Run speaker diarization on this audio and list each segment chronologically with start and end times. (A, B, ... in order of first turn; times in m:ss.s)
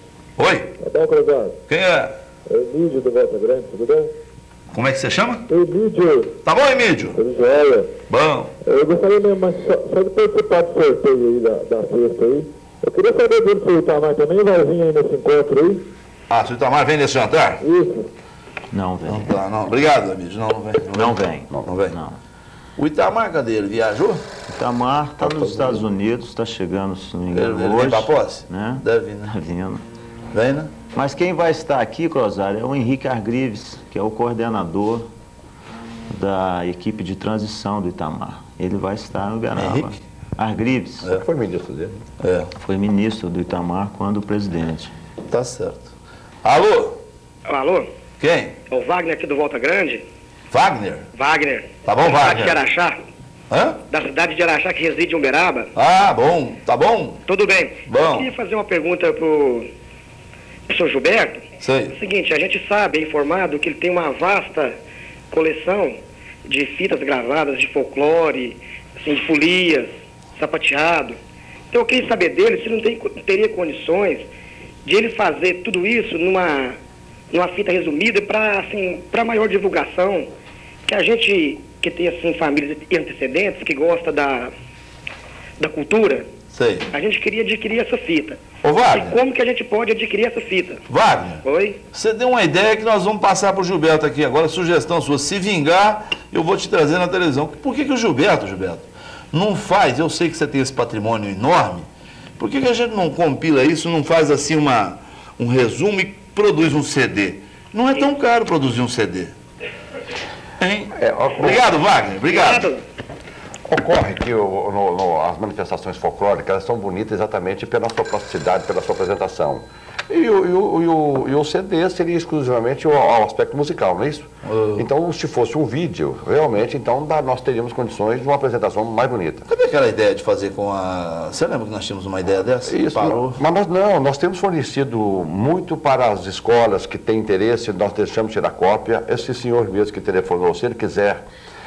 0:00.4-0:00.8 A
0:00.8-0:01.6 B
0:01.7-0:02.1 A
0:02.5-0:04.1 B
0:04.7-0:05.5 A
0:05.5-0:06.4 B
0:06.4-0:07.2 A
0:07.2-0:07.9 B
0:08.1-0:08.5 A
0:08.6-0:15.9 B
0:16.3-0:17.6 A
0:17.6-0:18.1 B
0:18.7-0:19.4 C
0:19.1-0:22.0 A
0:20.9-0:22.2 C
0:22.8-0:24.2 A
0:24.5-0:29.8 C
0:25.2-0:25.9 D
0:27.3-0:29.3 A
0:30.3-0:30.7 A
0:30.9-0:35.0 C
0:36.1-0:41.1 C
0:39.5-0:40.0 A
0:41.2-0:42.0 D
0:42.2-0:42.5 A
0:42.6-0:44.9 C
0:45.3-0:45.9 A
0:46.4-0:47.0 A
0:47.5-0:47.9 E
0:48.2-0:48.6 A
0:48.7-0:50.0 E
0:50.5-0:51.1 A
0:51.2-0:53.0 E
0:51.8-0:52.6 A
0:53.5-0:53.8 A
0:53.9-0:55.7 E
0:55.8-0:57.2 A
0:57.3-0:59.7 E
0:57.9-0:58.3 A
1:00.7-1:04.8 E
1:01.6-1:02.0 A
1:05.3-1:11.2 E
1:11.7-1:14.3 E
1:14.8-1:16.8 E
1:17.3-1:20.3 E
1:20.9-1:24.5 E
1:25.6-1:26.3 E
1:26.5-1:26.9 A
1:26.9-1:30.8 E
1:28.6-1:29.2 A
1:30.9-1:49.3 A
1:31.4-1:31.8 E
1:50.6-1:52.7 A
1:50.9-1:51.7 D
1:52.3-1:52.8 E
1:53.7-2:09.5 D
2:04.4-2:04.8 A
2:09.5-2:13.4 A
2:12.7-2:21.2 D